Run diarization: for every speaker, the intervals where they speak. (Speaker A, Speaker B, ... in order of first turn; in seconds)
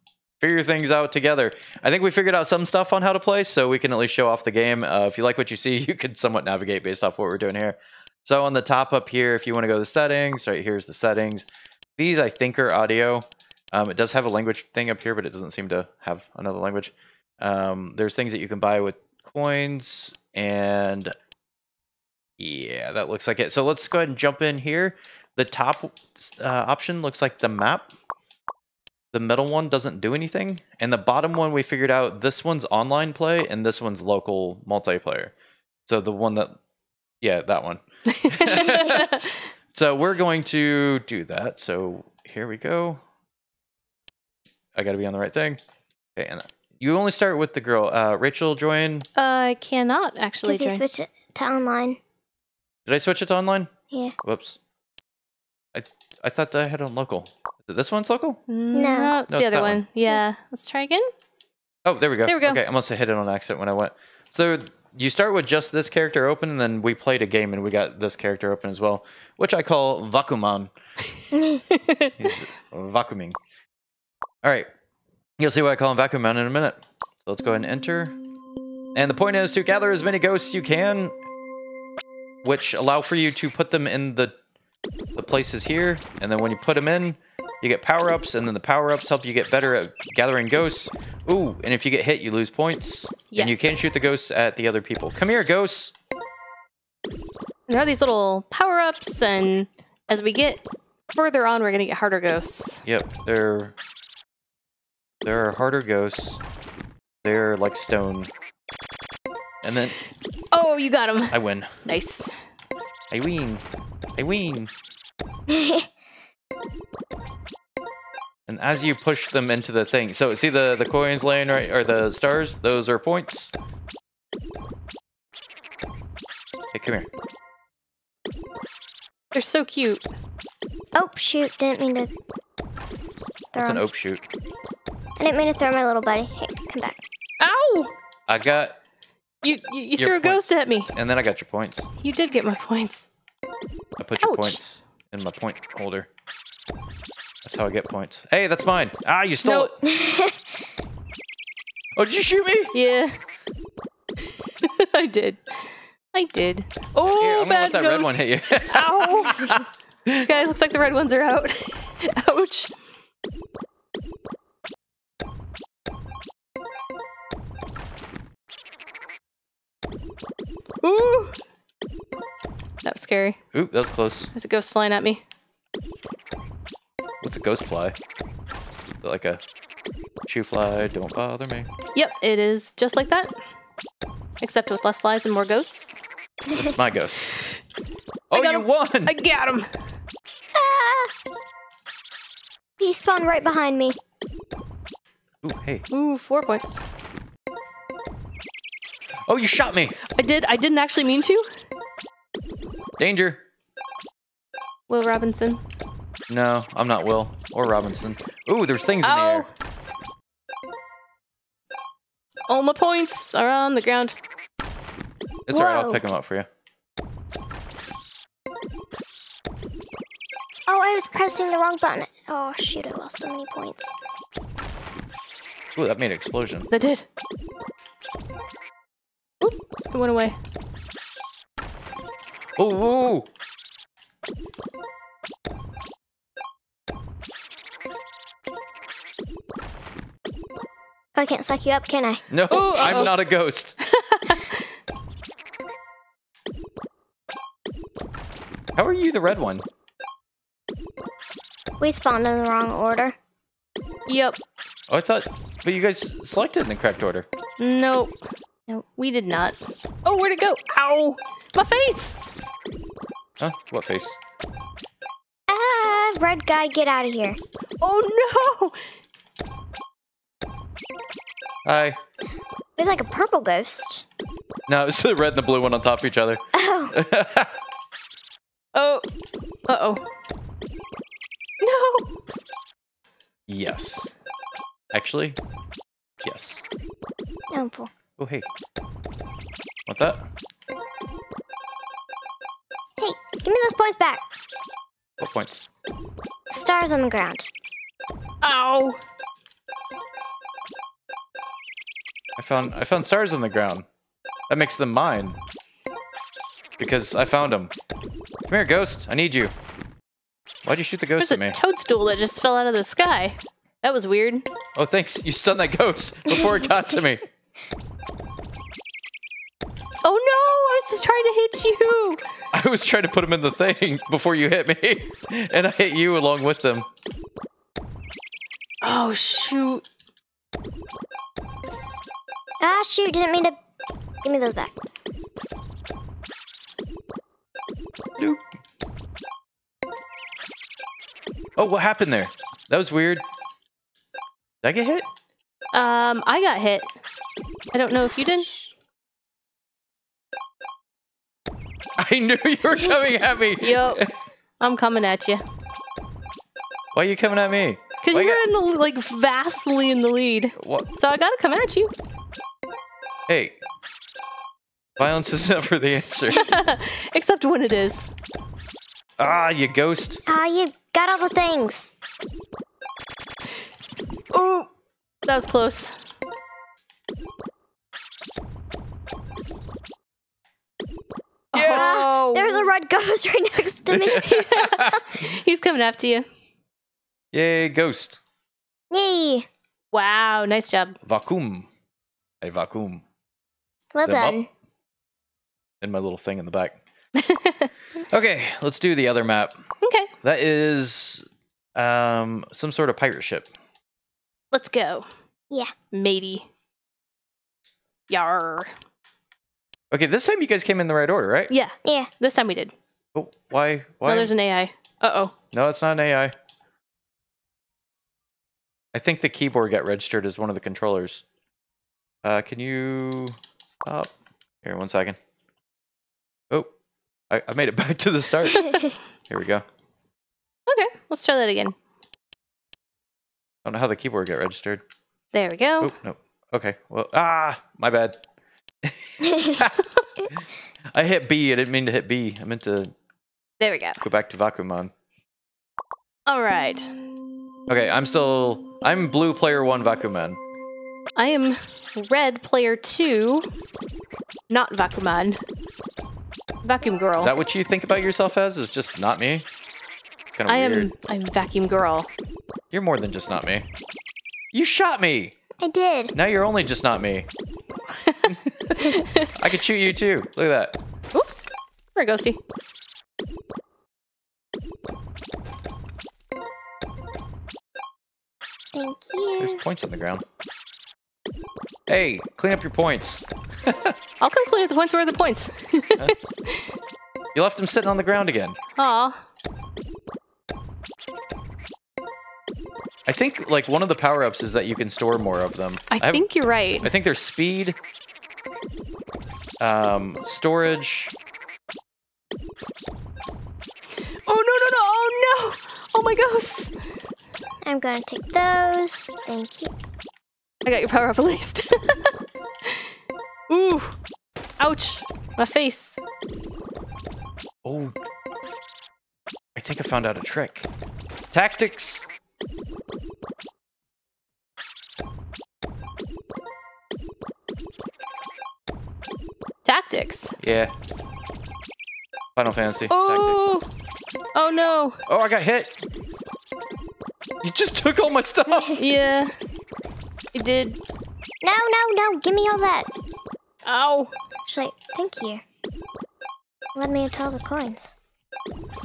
Speaker A: 0.4-11.5, 12.0-21.1, 22.4-27.9, 29.1-35.3, 35.9-36.6, 37.2-39.2, 39.7-43.0, 44.8-45.6, 46.1-49.1, 52.9-53.7, 54.2-54.6, 55.7-58.4, 59.3-59.8, 61.8-70.7, 72.2-73.4, 74.4-74.7, 75.4-78.2, 78.9-81.1, 82.4-84.3, 85.2-95.9, 102.8-103.7, 105.2-106.4, 107.2-108.3, 109.6-109.9, 111.3-111.7, 113.1-113.6, 114.2-114.7, 118.5-123.5, 126.7-127.1, 133.5-134.2, 138.3-138.7, 140.0-141.9, 144.0-146.1, 147.4-149.7, 151.9-152.7, 157.0-160.2, 173.5-174.3, 177.2-177.9, 179.0-179.4, 180.2-181.7, 186.5-187.2, 188.3-189.1, 195.4-195.8, 199.3-200.0, 203.0-203.4, 206.3-209.5, 215.5-216.5, 225.7-226.7, 232.6-233.3, 242.3-243.8, 248.8-249.6, 254.9-257.2, 263.4-264.2, 271.6-272.0, 274.7-277.6, 283.5-284.1, 284.9-285.4, 286.2-286.6, 288.2-288.5, 289.9-290.2, 295.2-295.6, 302.4-303.9, 304.5-305.4, 306.8-307.7, 308.5-309.5, 310.6-311.6, 314.8-317.2, 322.5-326.9, 341.6-343.2, 344.6-345.1, 352.0-354.1, 356.9-358.4, 360.6-360.9, 363.3-363.6, 365.0-366.4, 369.2-370.2, 381.5-382.1, 383.9-385.1, 387.3-388.2, 391.0-391.7, 392.4-393.0, 394.0-394.4, 395.8-396.8, 398.1-399.5, 400.2-403.5, 409.9-411.5, 413.1-414.3, 415.5-416.3, 418.9-421.2, 422.2-424.1, 424.6-425.2, 427.3-429.6, 433.6-434.8, 435.8-438.2, 438.8-439.8, 440.9-442.9, 444.0-444.9, 447.7-450.4, 457.1-459.4, 460.4-460.9, 462.7-463.6, 464.5-465.3, 466.1-467.3, 468.2-470.8, 479.4-480.2, 481.9-483.9, 487.3-488.6, 493.1-496.2, 496.8-497.8, 499.6-501.1, 517.6-517.9, 519.5-520.7, 521.3-522.1, 530.4-530.7, 532.4-533.4, 535.1-535.7, 537.4-538.8
Speaker B: 38.1-39.3, 49.1-50.8, 58.5-61.1, 62.2-62.6, 71.8-72.1, 93.3-93.8, 97.7-100.6, 101.1-102.8, 110.5-112.3, 129.3-130.0, 137.4-137.9, 139.4-140.9, 142.0-143.1, 144.2-144.6, 149.4-149.7, 152.7-153.2, 154.6-159.6, 160.2-162.7, 170.8-171.3, 172.8-173.4, 174.3-175.2, 181.9-183.3, 184.4-186.0, 188.3-189.7, 195.9-196.8, 200.2-201.4, 204.9-205.6, 209.0-209.5, 212.5-214.2, 226.7-227.0, 229.4-230.3, 242.5-243.1, 243.9-244.6, 254.1-254.4, 257.6-258.2, 258.8-262.2, 267.8-268.8, 278.7-279.0, 279.7-280.0, 281.6-282.1, 298.4-299.0, 311.2-314.4, 320.0-322.2, 328.8-329.8, 345.7-346.9, 347.7-348.5, 353.6-354.0, 354.6-355.4, 358.0-361.9, 366.3-368.1, 374.3-374.7, 375.2-375.9, 381.5-382.7, 384.2-386.2, 389.9-390.9, 397.2-397.7, 399.8-400.1, 404.5-405.1, 405.9-406.4, 408.1-408.7, 411.5-412.7, 414.0-415.3, 428.5-428.9, 430.7-431.7, 435.3-435.9, 443.6-444.0, 446.3-446.9, 451.1-453.5, 454.5-455.4, 456.6-457.3, 460.5-462.1, 468.0-469.3, 471.1-471.4, 471.9-472.4, 484.2-486.6, 488.8-489.2, 495.9-496.9, 504.3-506.7, 510.6-512.1, 513.5-514.0, 514.6-516.0, 529.6-530.3, 532.9-533.6, 534.3-535.0, 538.8-539.3, 540.3-540.8, 543.6-544.1
Speaker C: 50.4-52.0, 58.7-59.1, 71.3-71.6, 115.5-115.9, 130.9-132.1, 133.5-133.8, 135.2-137.0, 149.8-150.4, 190.5-191.1, 192.8-194.0, 215.5-216.0, 220.7-223.9, 241.2-243.1, 251.8-253.1, 265.5-267.4, 272.8-274.1, 276.5-277.0, 287.5-287.9, 293.0-294.2, 296.5-297.5, 332.6-333.5, 334.2-334.7, 370.3-371.9, 381.6-384.3, 388.9-389.4, 393.9-394.5, 465.6-466.1, 478.7-479.6, 507.6-509.7, 541.4-542.9, 544.5-545.4, 546.7-547.9